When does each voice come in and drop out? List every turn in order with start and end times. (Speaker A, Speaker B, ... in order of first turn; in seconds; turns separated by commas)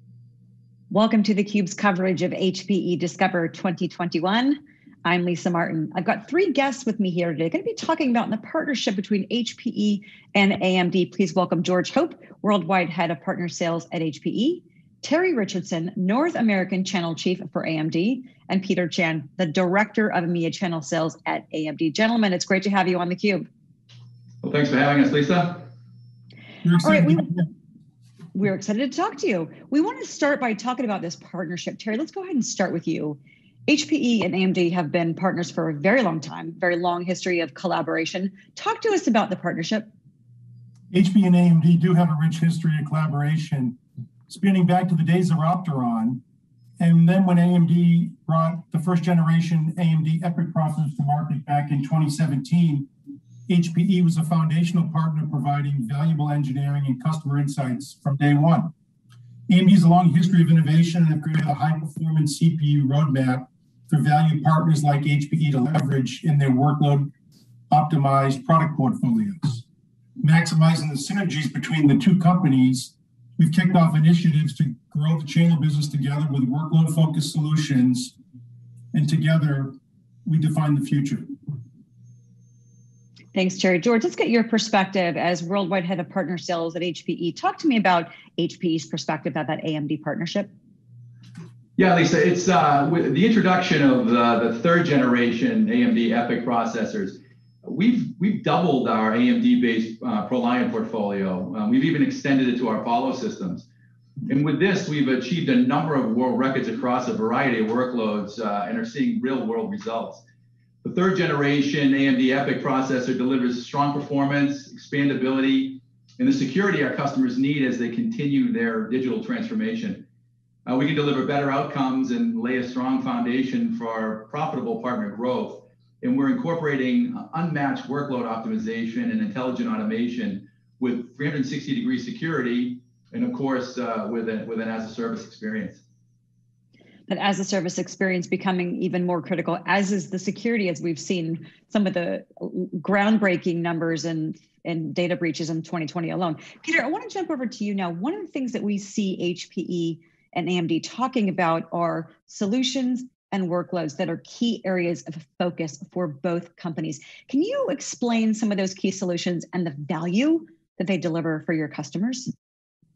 Speaker A: 0.9-23.5, Speaker B: 24.4-25.7, Speaker C: 26.6-27.5, Speaker A: 26.8-27.3, Speaker A: 28.4-39.9, Speaker C: 40.9-46.2, Speaker C: 46.8-52.9, Speaker C: 53.5-58.7, Speaker C: 59.5-67.1, Speaker C: 67.7-69.6, Speaker C: 70.2-78.2, Speaker C: 78.9-81.3, Speaker A: 83.3-90.5, Speaker B: 91.8-103.7, Speaker B: 104.3-110.2, Speaker B: 110.8-120.0, Speaker B: 120.7-135.8, Speaker A: 137.1-162.3